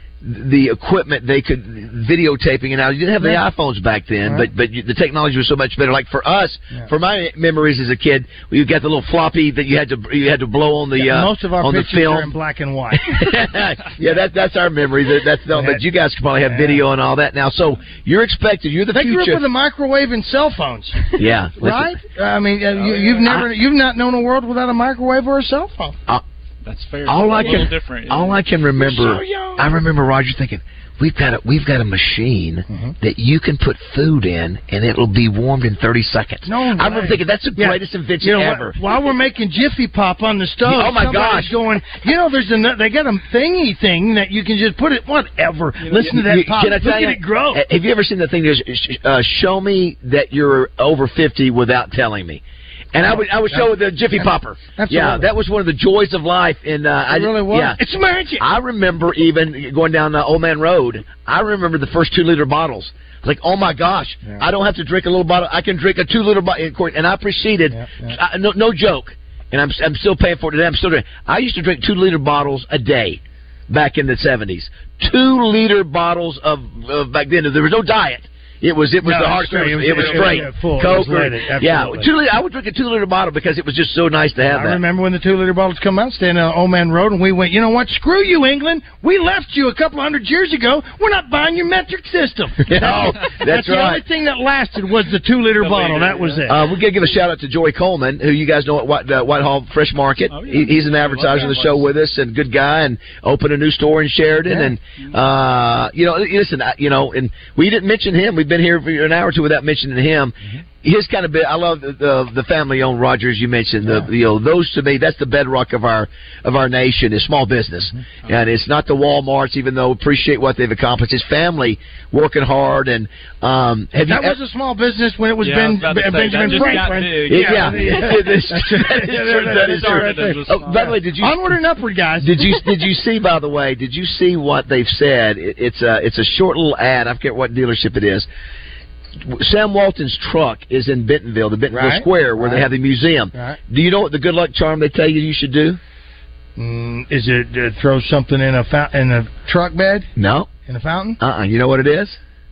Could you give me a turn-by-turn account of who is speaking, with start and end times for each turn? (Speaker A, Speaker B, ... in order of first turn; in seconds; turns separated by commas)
Speaker A: 0.2-12.3, Speaker B: 4.2-4.5, Speaker B: 10.9-13.2, Speaker A: 13.2-19.4, Speaker B: 15.5-15.8, Speaker B: 16.4-16.8, Speaker B: 18.9-21.0, Speaker A: 21.2-21.9, Speaker B: 21.6-25.9, Speaker C: 22.8-23.4, Speaker C: 26.6-28.4, Speaker A: 27.1-38.7, Speaker B: 28.8-29.7, Speaker B: 32.7-32.9, Speaker B: 36.4-47.6, Speaker A: 40.7-41.5, Speaker A: 46.0-52.4, Speaker A: 52.9-57.8, Speaker B: 53.0-55.3, Speaker B: 57.1-58.5, Speaker A: 58.4-73.2, Speaker B: 67.7-68.2, Speaker A: 73.7-84.8, Speaker B: 79.0-82.1, Speaker B: 84.5-96.6, Speaker A: 92.7-94.0, Speaker C: 95.6-96.5, Speaker A: 96.5-124.3, Speaker C: 100.3-101.9, Speaker B: 104.5-104.7, Speaker B: 113.8-114.1, Speaker B: 124.0-132.6, Speaker C: 125.4-128.2, Speaker A: 127.3-131.4, Speaker C: 129.2-131.0, Speaker A: 132.2-138.2, Speaker A: 139.3-145.8, Speaker B: 141.7-142.7, Speaker B: 143.3-143.6, Speaker B: 146.6-150.1, Speaker A: 150.2-150.5, Speaker B: 150.7-151.2, Speaker A: 151.2-152.2